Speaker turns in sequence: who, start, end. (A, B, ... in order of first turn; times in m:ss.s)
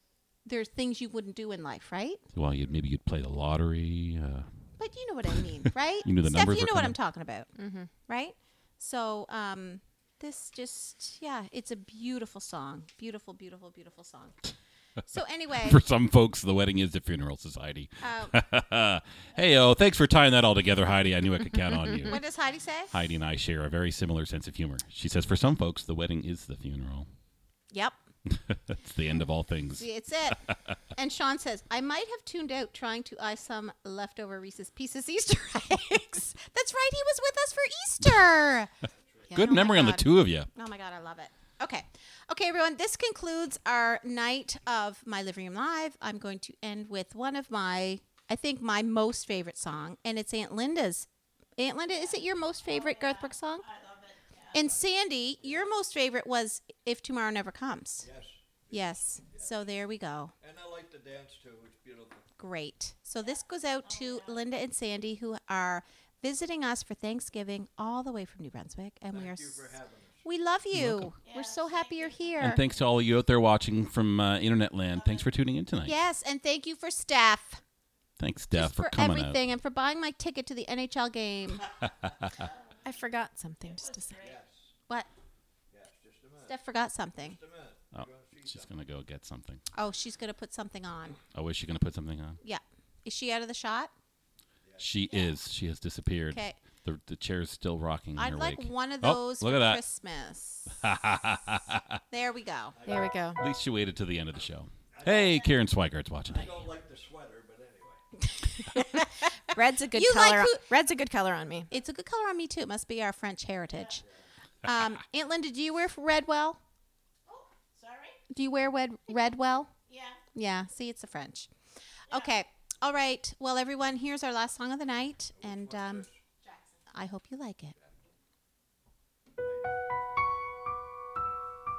0:00.4-0:02.2 A
0:02.3-0:04.5 B
0:04.8-0:07.5 A
0:05.5-0:07.0 B
0:07.6-0:07.9 C
0:08.1-0:14.4 A
0:15.1-0:15.8 A
0:15.6-0:22.2 B
0:18.0-0:18.4 A
0:22.0-0:22.9 A
0:22.9-0:27.1 B
0:27.7-0:28.0 A
0:28.3-0:29.8 B
0:29.8-0:30.4 A
0:30.9-0:38.7 A
0:39.3-0:53.7 A
0:39.3-0:40.5 B
0:54.5-0:58.1 A
0:55.4-0:55.7 D
0:58.0-0:59.6 D
0:58.7-1:00.3 A
1:00.4-1:02.3 D
1:02.4-1:12.6 A
1:09.1-1:10.2 D
1:10.7-1:11.1 B
1:12.4-1:16.0 B
1:15.8-1:17.6 A
1:18.2-1:19.4 B
1:18.5-1:21.7 A
1:21.8-1:22.3 B
1:22.8-1:24.3 C
1:24.2-1:24.7 D
1:25.7-1:26.6 D
1:26.4-1:27.4 A
1:27.2-1:28.7 D
1:27.9-1:29.6 B
1:29.7-1:31.2 A
1:31.3-1:32.4 B
1:32.4-1:33.9 A
1:34.6-1:34.9 D
1:34.8-1:39.8 B
1:36.3-1:36.6 A
1:38.2-1:40.9 A
1:40.8-1:42.0 B
1:42.1-1:42.8 A
1:42.7-1:43.1 D
1:42.8-1:43.4 C
1:43.4-1:46.6 B
1:44.9-1:45.6 D
1:46.3-1:48.0 D
1:48.7-1:51.7 C
1:49.9-1:50.6 A
1:51.7-1:54.0 A
1:54.6-1:56.6 A
1:58.3-1:59.7 A
2:00.3-2:01.5 A
2:02.1-2:06.1 A
2:05.4-2:06.2 D
2:06.9-2:07.7 A
2:07.8-2:08.1 D
2:09.4-2:09.8 D